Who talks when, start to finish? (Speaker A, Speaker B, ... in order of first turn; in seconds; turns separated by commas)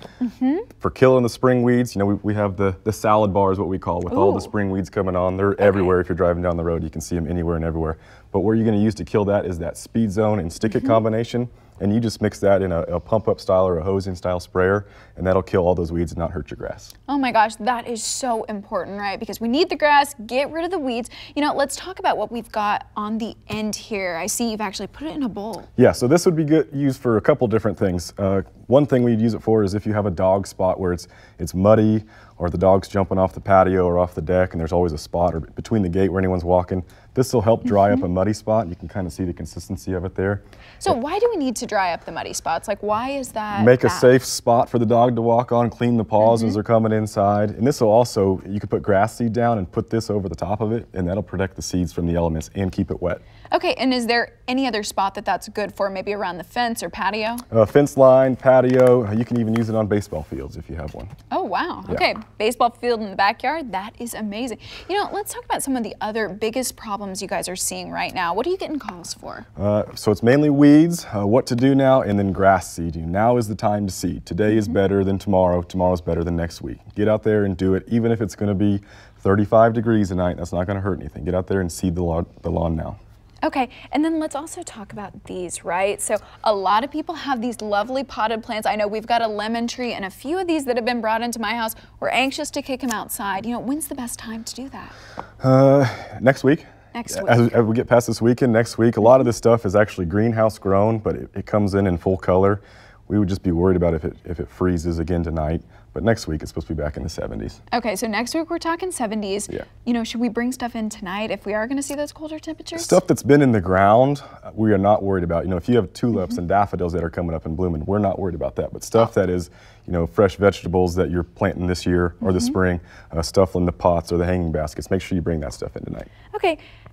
Speaker A: 0.2-0.7, Speaker B: 0.8-16.9, Speaker A: 4.1-4.5, Speaker A: 5.6-5.9, Speaker A: 17.1-25.7, Speaker B: 25.8-40.9, Speaker A: 40.8-44.1, Speaker B: 43.5-53.2, Speaker A: 46.2-46.6, Speaker A: 53.5-57.4, Speaker B: 57.5-61.1, Speaker A: 61.3-69.5, Speaker B: 69.6-83.0, Speaker A: 74.5-74.8, Speaker A: 83.4-94.9, Speaker B: 95.4-107.6, Speaker A: 96.9-97.5, Speaker A: 107.7-113.0, Speaker B: 112.8-126.1, Speaker A: 122.2-122.5, Speaker A: 126.3-126.6